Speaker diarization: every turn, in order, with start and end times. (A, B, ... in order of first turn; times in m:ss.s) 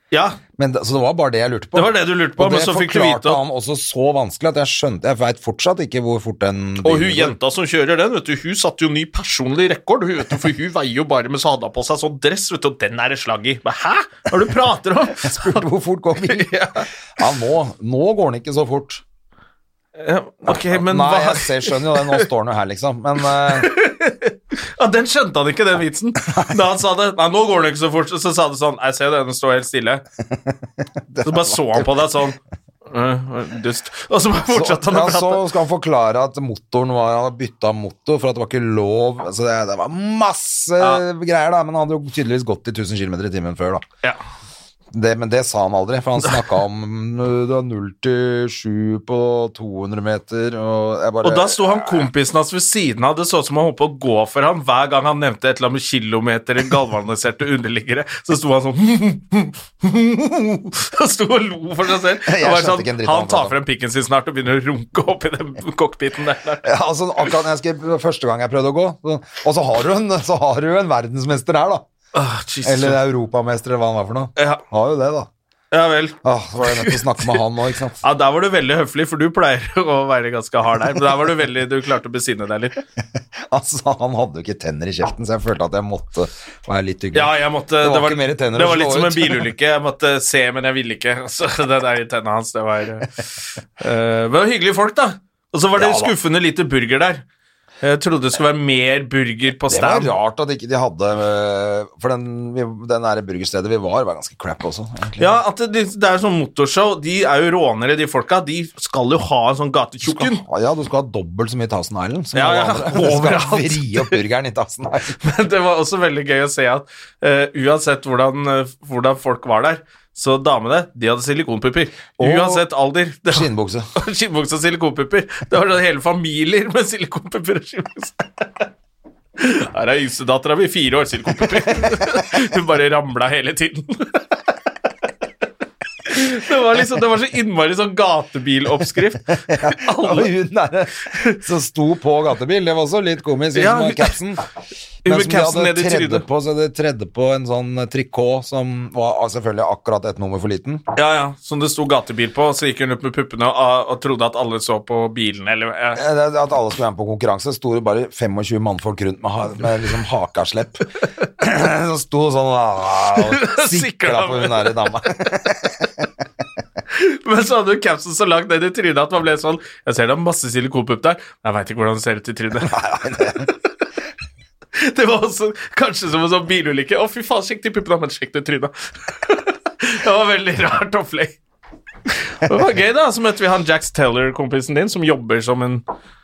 0:00.1-0:00.4 A
0:00.6-0:07.4 B
0:01.7-0:03.4 A
0:06.8-0:15.6 A
0:15.2-0:16.5 B
0:16.3-0:16.9 A
0:17.2-0:19.0 B
0:20.0-0:22.2 A
0:20.5-0:23.7 B
0:23.4-0:30.0 A
0:26.3-0:26.5 B
0:31.1-0:31.9 B
0:31.2-0:35.4 A
0:34.5-0:43.8 B
0:44.9-0:52.1 B
0:51.2-1:06.6 A
1:02.2-1:03.5 B
1:06.6-1:11.9 B
1:12.1-1:13.0 A
1:12.6-1:15.3 B
1:14.4-1:14.6 A
1:15.7-1:17.3 A
1:16.2-1:18.0 B
1:18.0-1:22.8 A
1:23.5-1:29.5 B
1:27.1-1:37.2 A
1:35.8-1:36.1 B
1:37.8-1:40.1 A
1:39.7-1:45.4 B
1:45.2-1:50.4 A
1:50.0-1:55.2 B
1:52.3-1:54.2 A
1:55.2-2:08.7 A
2:02.2-2:02.6 B
2:03.3-2:03.9 B
2:09.4-2:14.2 A
2:11.6-2:12.2 B
2:16.0-2:20.3 A
2:19.3-2:24.4 B
2:21.1-2:21.4 A
2:23.5-2:24.2 A
2:25.0-2:26.2 A
2:25.0-2:30.8 B
2:30.9-2:36.0 A
2:35.9-2:46.1 B
2:43.2-2:44.8 A
2:46.9-2:52.8 A
2:52.6-2:53.5 B
2:54.8-3:01.4 A
3:02.1-3:05.8 A